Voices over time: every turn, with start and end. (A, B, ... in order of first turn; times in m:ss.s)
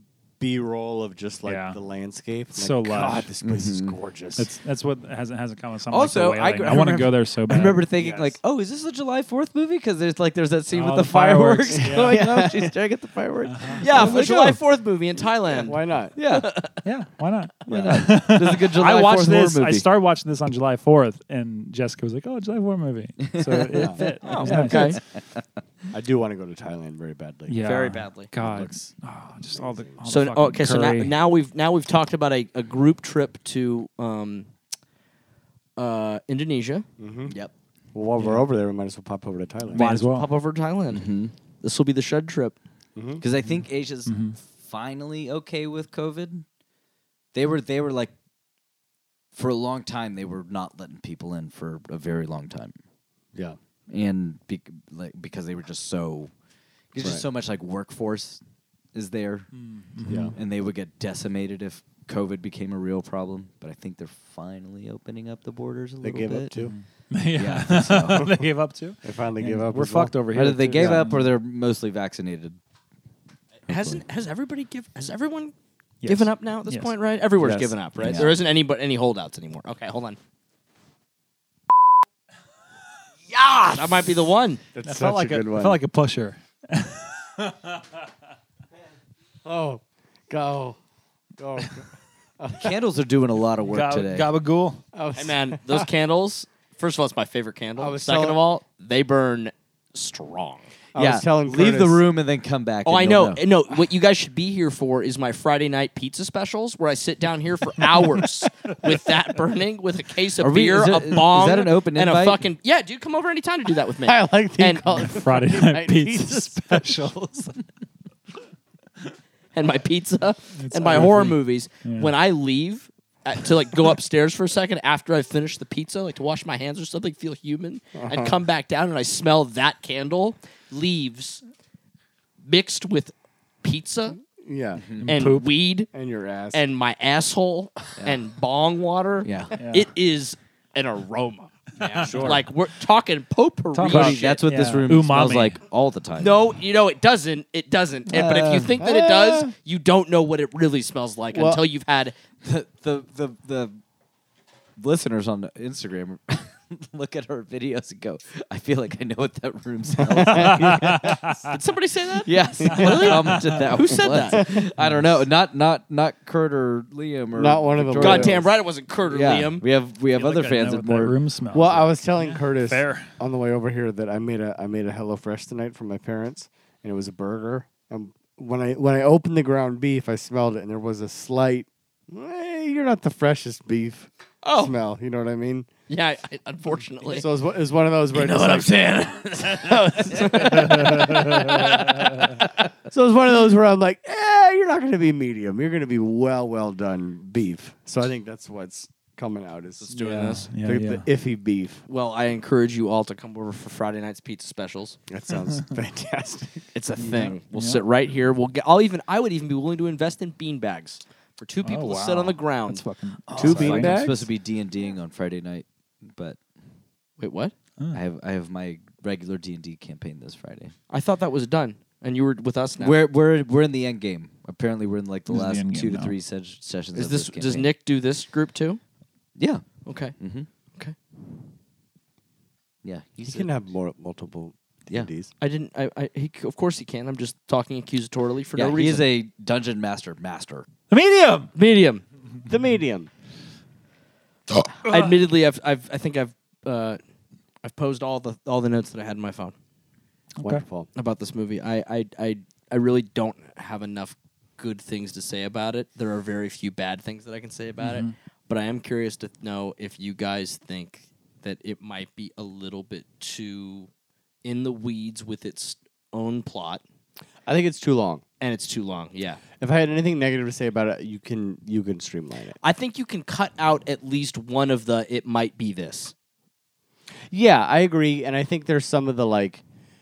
0:00.4-0:04.5 A
0:01.4-0:01.8 B
0:02.6-0:03.3 B
0:03.4-0:04.0 C
0:04.4-0:07.8 B
0:05.9-0:14.6 C
0:08.0-0:08.4 A
0:10.7-0:12.2 B
0:11.8-0:12.7 A
0:13.4-0:13.8 B
0:13.8-0:16.8 D
0:15.5-0:16.1 A
0:16.2-0:16.5 C
0:16.8-0:25.0 B
0:17.7-0:18.1 A
0:17.7-0:19.9 C
0:23.3-0:25.4 C
0:23.7-0:24.6 A
0:24.2-0:25.0 D
0:25.9-0:30.0 A
0:27.5-0:31.1 B
0:27.6-0:28.3 C
0:30.1-0:34.5 D
0:35.8-0:36.8 D
0:37.0-0:37.3 A
0:37.3-0:37.5 C
0:37.9-0:39.9 A
0:38.2-0:38.4 B
0:39.7-0:40.3 B
0:39.8-0:41.1 D
0:40.9-0:41.3 C
0:41.6-0:42.6 D
0:43.0-0:43.2 A
0:43.2-0:46.4 C
0:43.4-0:44.4 B
0:47.3-0:48.1 C
0:49.3-0:52.7 C
0:53.9-0:56.3 C
0:56.9-0:58.4 C
0:57.0-0:57.2 A
0:58.9-1:06.5 C
0:59.6-1:00.4 B
1:00.1-1:00.4 A
1:06.0-1:06.7 A
1:06.6-1:11.3 B
1:07.3-1:08.3 C
1:09.0-1:11.2 A
1:10.3-1:12.6 C
1:13.7-1:15.5 D
1:13.7-1:14.0 C
1:16.0-1:16.9 B
1:16.0-1:20.2 D
1:17.4-1:18.2 A
1:18.0-1:18.4 C
1:23.7-1:24.6 D
1:24.7-1:25.8 A
1:24.8-1:27.8 B
1:29.4-1:30.8 A
1:31.4-1:31.9 A
1:32.4-1:32.7 A
1:32.6-1:34.3 C
1:33.7-1:34.8 B
1:34.9-1:35.9 A
1:35.2-1:40.7 D
1:37.8-1:38.4 A
1:40.9-1:42.1 A
1:40.9-1:43.4 C
1:42.8-1:54.8 D
1:50.4-1:52.4 C
1:54.0-1:57.1 A
1:54.8-1:57.6 B
1:59.5-2:11.4 D
2:00.6-2:02.1 B
2:07.9-2:08.4 A
2:12.4-2:14.2 D
2:14.4-2:14.8 A
2:14.8-2:15.1 C
2:15.0-2:15.5 B
2:15.0-2:15.9 D
2:15.9-2:16.6 A
2:16.5-2:24.4 D
2:19.2-2:19.6 C
2:19.6-2:19.9 B
2:21.8-2:22.4 B
2:21.8-2:22.5 C
2:23.7-2:25.6 B
2:23.9-2:26.5 C
2:26.2-2:32.1 D
2:28.1-2:28.8 C
2:28.8-2:29.5 A
2:31.3-2:31.6 A
2:32.4-2:33.8 C
2:34.8-2:41.2 C
2:40.1-2:40.7 A
2:40.2-2:41.5 B
2:41.5-2:44.5 D
2:42.2-2:48.5 C
2:42.7-2:43.4 B
2:44.4-2:44.7 A
2:44.8-2:45.1 B
2:47.3-2:48.4 A
2:48.0-2:49.6 D
2:49.1-2:51.2 C
2:50.1-2:53.1 B
2:51.5-3:05.7 A
3:04.4-3:04.7 D
3:05.9-3:07.3 D
3:07.0-3:08.9 A
3:08.2-3:12.1 D
3:08.3-3:09.6 C
3:10.1-3:11.7 A
3:12.9-3:21.8 A
3:19.9-3:20.5 D
3:19.9-3:21.1 B
3:21.9-3:25.0 D
3:25.1-3:26.6 A
3:26.7-3:32.8 D
3:27.0-3:27.8 B
3:31.6-3:34.1 B
3:33.3-3:36.4 C
3:33.4-3:34.3 A
3:37.2-3:37.5 D
3:37.9-3:40.7 C
3:40.9-3:43.0 D
3:42.8-3:47.7 C
3:45.3-3:46.1 B
3:46.9-3:48.8 D
3:49.4-3:49.6 C
3:49.9-3:50.2 D
3:50.2-3:50.5 C
3:52.8-3:53.5 C
3:53.2-3:55.3 A
3:55.4-3:59.1 D
3:58.6-4:00.6 C
4:00.9-4:01.5 B
4:01.6-4:02.0 D
4:02.5-4:03.1 A
4:04.8-4:07.0 D
4:07.6-4:09.6 D
4:10.4-4:10.6 B
4:10.4-4:10.9 A
4:10.9-4:23.9 D
4:17.8-4:18.1 B
4:24.4-4:26.8 D
4:27.4-4:28.2 A
4:28.4-4:29.4 D
4:29.6-4:32.6 A
4:32.6-4:36.1 D
4:37.3-4:39.6 A